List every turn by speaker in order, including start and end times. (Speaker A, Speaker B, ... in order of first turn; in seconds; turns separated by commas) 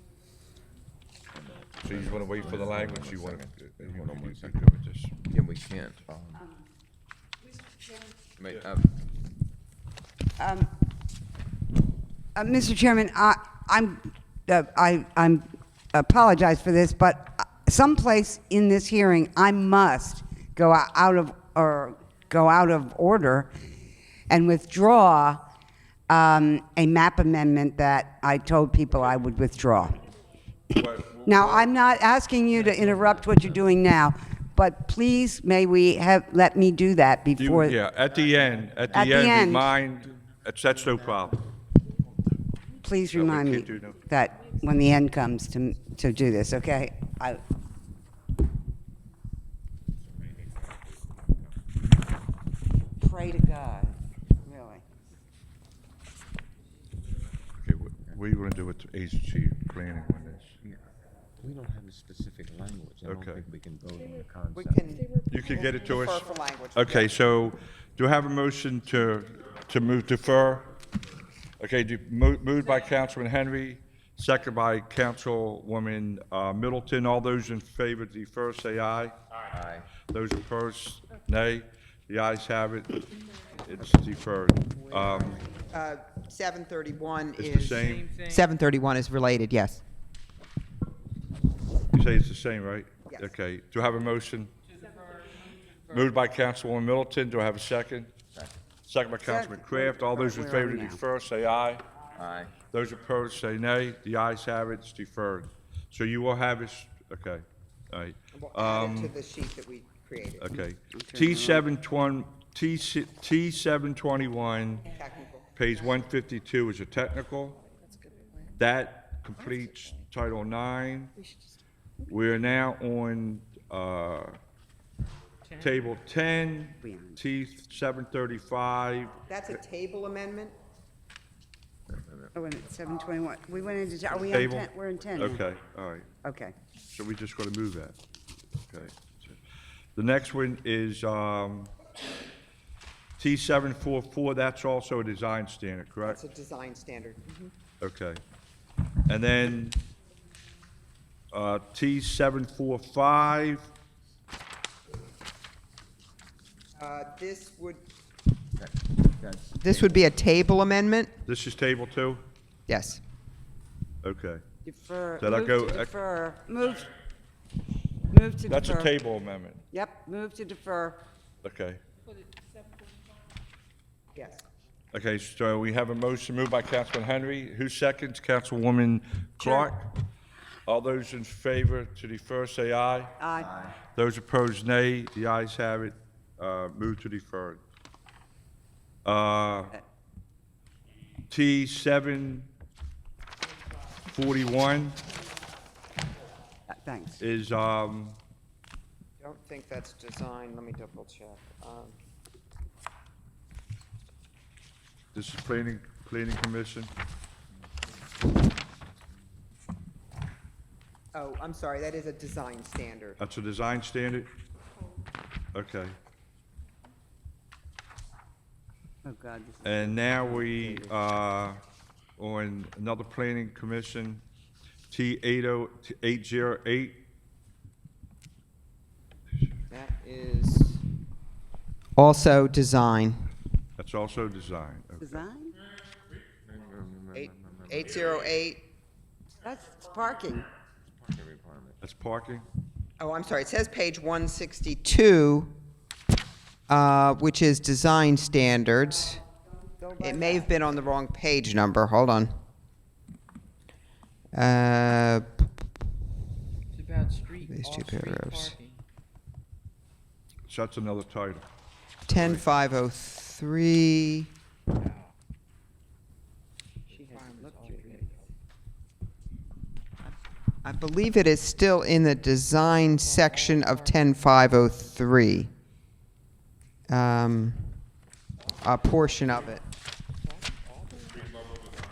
Speaker A: 1.3-4.6, Speaker B: 1.8-5.2, Speaker A: 5.2-6.5, Speaker A: 8.4-8.9, Speaker C: 10.4-10.7, Speaker C: 12.3-23.5, Speaker C: 24.3-25.4, Speaker C: 26.1-30.0, Speaker B: 30.7-31.8, Speaker C: 31.2-37.8, Speaker A: 32.5-33.9, Speaker B: 37.4-41.4, Speaker A: 38.0-39.1, Speaker C: 38.9-39.7, Speaker A: 40.8-41.2, Speaker C: 42.8-47.4, Speaker B: 43.1-44.1, Speaker C: 53.0-54.8, Speaker B: 57.6-60.5, Speaker A: 61.4-64.9, Speaker B: 63.0-63.5, Speaker D: 64.5-67.2, Speaker B: 65.3-70.7, Speaker B: 71.6-79.2, Speaker A: 79.5-80.0, Speaker B: 80.0-85.4, Speaker E: 84.8-85.5, Speaker D: 85.7-89.8, Speaker B: 87.4-88.1, Speaker E: 87.8-88.5, Speaker B: 91.9-94.5, Speaker E: 94.8-96.0, Speaker B: 95.9-98.1, Speaker A: 98.3-98.6, Speaker B: 98.9-101.8, Speaker C: 99.2-101.0, Speaker A: 102.1-102.6, Speaker B: 102.7-109.1, Speaker D: 108.3-110.6, Speaker B: 110.4-114.9, Speaker C: 111.0-111.7, Speaker D: 114.9-115.5, Speaker B: 115.6-117.6, Speaker E: 117.9-118.5, Speaker B: 118.6-121.1, Speaker B: 122.1-124.4, Speaker B: 125.6-129.2, Speaker C: 126.8-127.2, Speaker D: 129.3-130.6, Speaker A: 131.9-132.3, Speaker C: 132.3-135.4, Speaker B: 134.1-136.1, Speaker C: 136.2-136.6, Speaker B: 136.9-138.0, Speaker B: 138.7-139.4, Speaker B: 140.0-141.7, Speaker B: 143.2-146.2, Speaker D: 146.0-147.5, Speaker B: 147.8-148.2, Speaker B: 149.1-149.8, Speaker B: 151.3-153.7, Speaker D: 156.8-157.8, Speaker A: 158.6-160.1, Speaker D: 159.5-161.1, Speaker B: 161.2-162.2, Speaker D: 162.7-163.0, Speaker B: 164.0-164.4, Speaker C: 164.7-166.9, Speaker B: 165.2-165.9, Speaker C: 168.1-168.9, Speaker B: 168.5-169.6, Speaker C: 169.7-171.0, Speaker B: 171.4-171.8, Speaker D: 174.1-174.4, Speaker B: 174.9-180.0, Speaker C: 179.4-179.7, Speaker B: 180.7-183.2, Speaker C: 183.2-183.6, Speaker A: 183.4-183.8, Speaker B: 183.9-187.6, Speaker B: 189.1-189.8, Speaker B: 191.3-192.5, Speaker B: 194.1-195.0, Speaker C: 196.7-197.2, Speaker B: 197.2-198.2, Speaker D: 199.2-201.9, Speaker B: 205.1-206.9, Speaker D: 211.2-213.2, Speaker B: 213.2-214.3, Speaker B: 215.5-216.0, Speaker C: 219.0-221.0, Speaker B: 219.6-221.6, Speaker B: 222.2-224.2, Speaker B: 224.9-227.0, Speaker D: 229.7-230.8, Speaker D: 232.0-233.2, Speaker B: 233.8-235.2, Speaker C: 235.0-235.6, Speaker A: 236.5-238.0, Speaker D: 237.1-238.7, Speaker C: 239.4-240.5, Speaker A: 241.0-241.8, Speaker B: 241.8-242.5, Speaker D: 243.0-245.5, Speaker D: 246.7-249.2, Speaker C: 249.8-250.6, Speaker D: 250.0-252.3, Speaker D: 254.3-255.3, Speaker E: 256.7-258.8, Speaker D: 257.5-258.6, Speaker B: 260.5-261.5, Speaker D: 262.1-264.3, Speaker B: 262.1-262.4, Speaker E: 264.8-265.1, Speaker E: 266.9-268.2, Speaker D: 270.6-275.5, Speaker E: 273.0-274.0, Speaker D: 276.9-277.8, Speaker D: 278.6-279.6, Speaker E: 280.2-281.7